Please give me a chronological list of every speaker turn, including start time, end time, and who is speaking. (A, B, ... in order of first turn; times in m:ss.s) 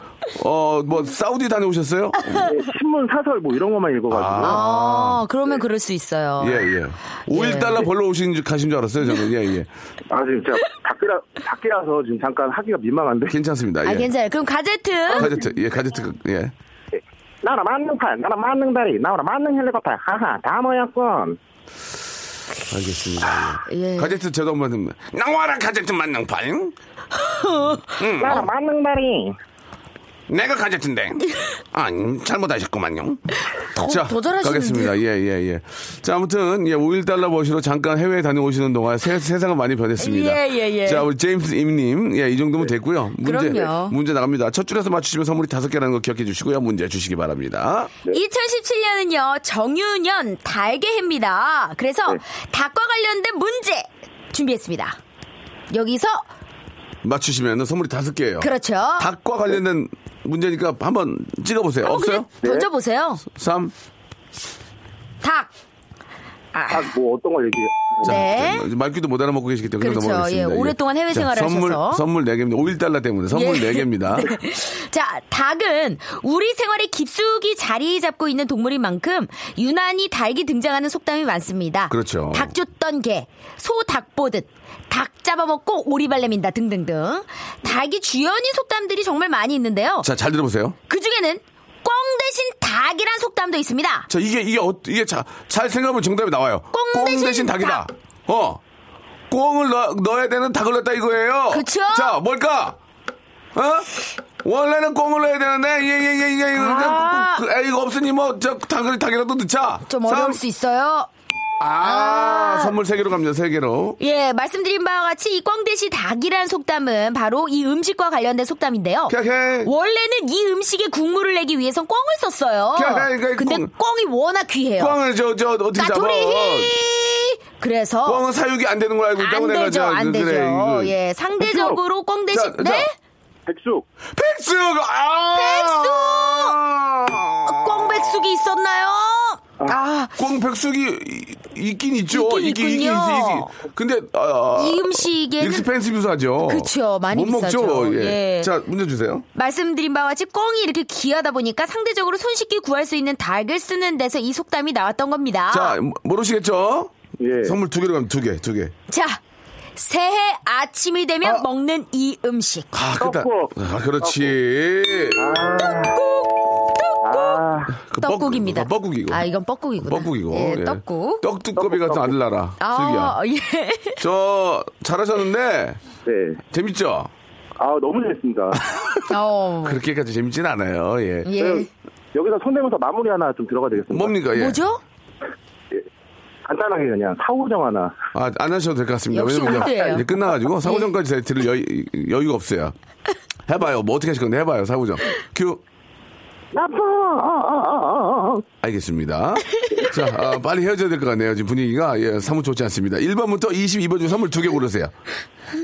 0:00.3-0:02.5 A
0:02.4-0:04.6 B
0:04.1-0:05.2 A
0:04.4-0:06.7 C
0:06.4-0:09.7 A
0:07.3-0:07.8 C
0:10.1-0:13.3 B
0:13.3-0:14.1 A
0:13.8-0:15.3 C
0:15.1-0:16.5 A
0:16.9-0:21.4 B
0:22.7-0:26.7 A
0:23.7-0:24.2 C
0:27.2-0:28.4 C
0:28.0-0:28.5 A
0:28.2-0:29.3 B
0:30.3-0:33.2 A
0:33.6-0:35.0 C
0:33.8-0:48.0 A
0:40.0-0:41.1 C
0:43.2-0:43.9 C
0:48.1-0:55.0 C
0:55.7-0:56.2 C
0:57.0-1:02.3 A
0:58.4-0:59.1 C
1:01.8-1:03.2 C
1:02.4-1:02.7 B
1:03.3-1:03.7 A
1:05.2-1:05.5 C
1:06.5-1:06.9 C
1:06.7-1:08.2 B
1:08.0-1:08.7 C
1:08.0-1:14.3 A
1:09.8-1:12.0 C
1:13.3-1:30.1 C
1:21.9-1:22.5 A
1:30.0-1:30.8 A
1:30.9-1:34.1 C
1:34.1-1:38.6 A
1:36.7-1:37.8 C
1:39.3-1:42.8 A
1:41.5-1:42.2 C
1:43.5-1:50.4 A
1:46.5-1:47.4 C
1:49.9-1:51.1 C
1:51.6-1:54.0 A
1:51.8-1:52.8 C
1:54.0-2:05.0 C
1:59.1-1:59.7 A
2:02.7-2:03.7 A
2:04.8-2:06.7 A
2:05.8-2:08.2 C
2:08.0-2:11.0 A
2:09.2-2:12.9 C
2:11.4-2:11.8 B
2:12.3-2:12.9 A
2:13.5-2:13.8 B
2:14.1-2:18.2 A
2:15.3-2:16.6 C
2:17.4-2:20.1 C
2:20.2-2:29.2 A
2:22.1-2:23.5 C
2:24.5-2:25.7 C
2:26.4-2:28.5 C
2:29.3-2:35.8 C
2:35.5-2:36.9 A
2:37.2-2:37.6 B
2:37.4-2:38.7 A
2:38.9-2:39.2 C
2:39.8-2:42.7 C
2:42.7-2:45.4 A
2:43.0-2:44.3 B
2:45.2-2:46.0 B
2:45.6-2:47.4 C
2:47.0-2:47.7 B
2:47.8-2:49.2 A
2:48.0-2:51.2 C
2:49.8-2:53.2 A
2:51.6-2:52.1 B
2:52.6-2:54.0 C
2:54.0-2:55.8 A
2:56.0-2:56.4 B
2:56.5-2:57.1 A
2:57.6-2:58.6 B
2:59.1-2:59.8 C
2:59.6-3:01.3 A
3:01.2-3:01.7 C
3:01.4-3:04.1 B
3:03.9-3:04.6 A
3:04.3-3:04.8 C
3:06.4-3:07.9 B
3:08.1-3:12.7 A
3:09.1-3:10.9 C
3:13.5-3:15.6 A
3:16.5-3:18.4 B
3:18.6-3:24.9 A